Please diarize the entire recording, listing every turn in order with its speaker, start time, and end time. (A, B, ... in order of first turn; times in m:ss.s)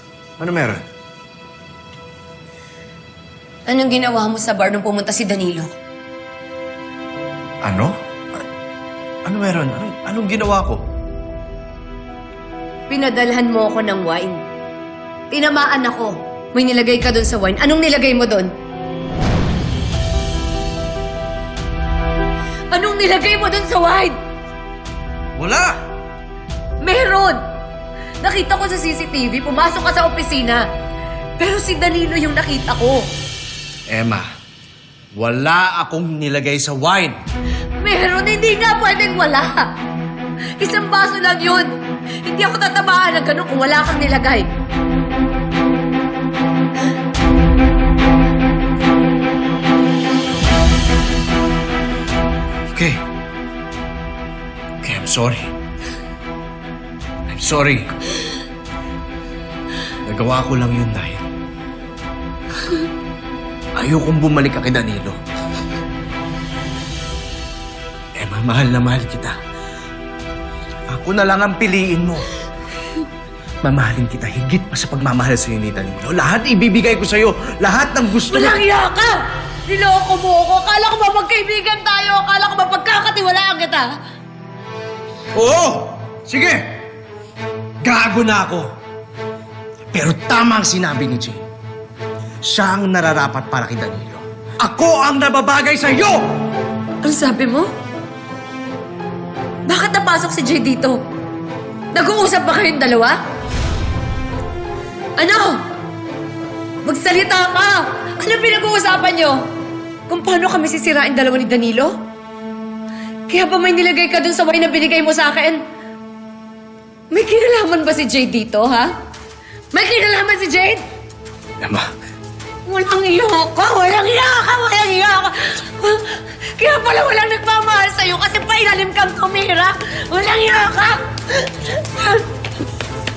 0:00.4-0:00.8 A
0:03.7-0:05.7 B
0:07.6-0:07.9 A
0:09.2-0:10.8 A
0:12.9-0:14.4 B
0:15.3-0:18.5 B
0:22.7-0:24.2 B
0:25.4-0:25.8 A
0:26.8-0:27.4 B
0:28.2-0:30.6 B
0:31.4-0:33.0 B
0:33.9-0:34.3 A
0:35.1-0:37.2 A
0:37.8-0:39.7 B
0:40.6-0:41.7 B
0:42.2-0:44.5 B
0:52.7-0:53.0 A
0:54.8-0:55.5 A
0:57.3-0:57.9 A
1:00.0-1:01.3 A
1:03.8-1:05.2 A
1:08.2-1:09.3 A
1:10.9-1:12.2 A
1:13.6-1:18.6 A
1:18.3-1:23.9 B
1:25.3-1:26.6 A
1:27.8-1:28.7 A
1:29.9-1:31.4 A
1:32.5-1:36.2 A
1:37.0-1:37.7 B
1:39.7-1:41.0 B
1:41.9-1:43.2 B
1:45.2-1:45.6 B
1:46.8-1:49.4 B
1:50.1-1:52.0 B
1:53.3-1:55.6 B
1:57.1-1:58.9 B
1:59.7-2:00.8 B
2:01.6-2:01.9 A
2:02.6-2:12.3 B